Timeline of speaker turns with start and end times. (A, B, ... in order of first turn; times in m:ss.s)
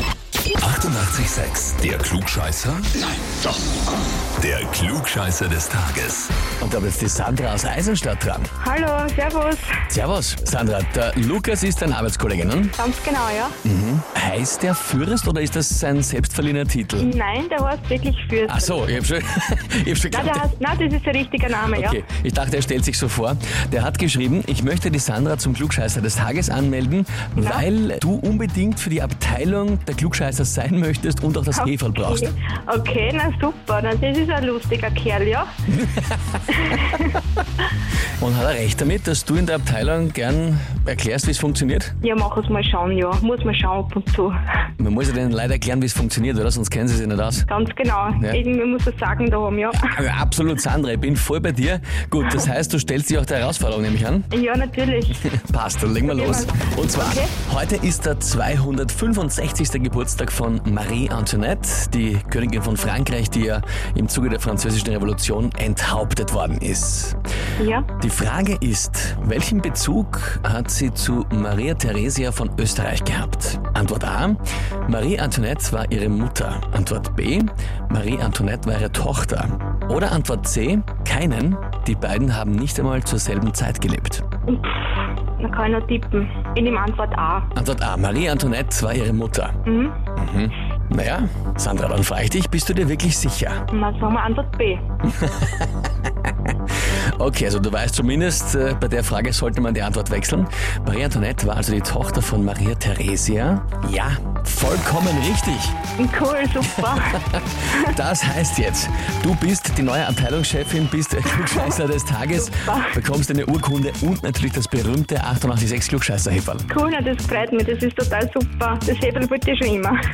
0:00.6-0:03.0 A
0:04.4-0:06.3 A
0:06.6-0:08.5 B
0:08.6-0:09.8 C
0:09.9-0:12.8 B
0:12.8-0:13.6 C
0:13.6-0:17.1 B
0:17.0-0:18.9 C
0:18.5-0:20.5 B
0:20.1-0:22.0 C
0:21.7-0:32.3 B
0:27.4-0:27.7 C
0:31.6-0:35.5 C
0:35.7-0:37.0 B
0:36.5-0:37.2 C
0:38.2-0:41.9 B
0:42.0-0:44.4 C
0:44.8-0:47.5 B
0:47.5-0:50.0 C
0:48.2-0:48.4 B
0:49.8-0:54.3 B
0:54.3-0:55.2 C
0:55.2-1:07.2 B
0:56.0-0:57.3 C
1:07.6-1:07.9 C
1:08.0-1:24.2 B
1:24.5-1:27.5 C
1:27.5-1:29.6 B
1:29.6-1:30.0 C
1:30.2-1:33.6 B
1:33.7-1:34.8 C
1:35.1-1:36.5 B
1:37.2-1:45.8 B
1:46.0-1:47.9 C
1:46.7-1:56.7 B
1:52.5-1:53.0 C
1:56.7-2:00.0 C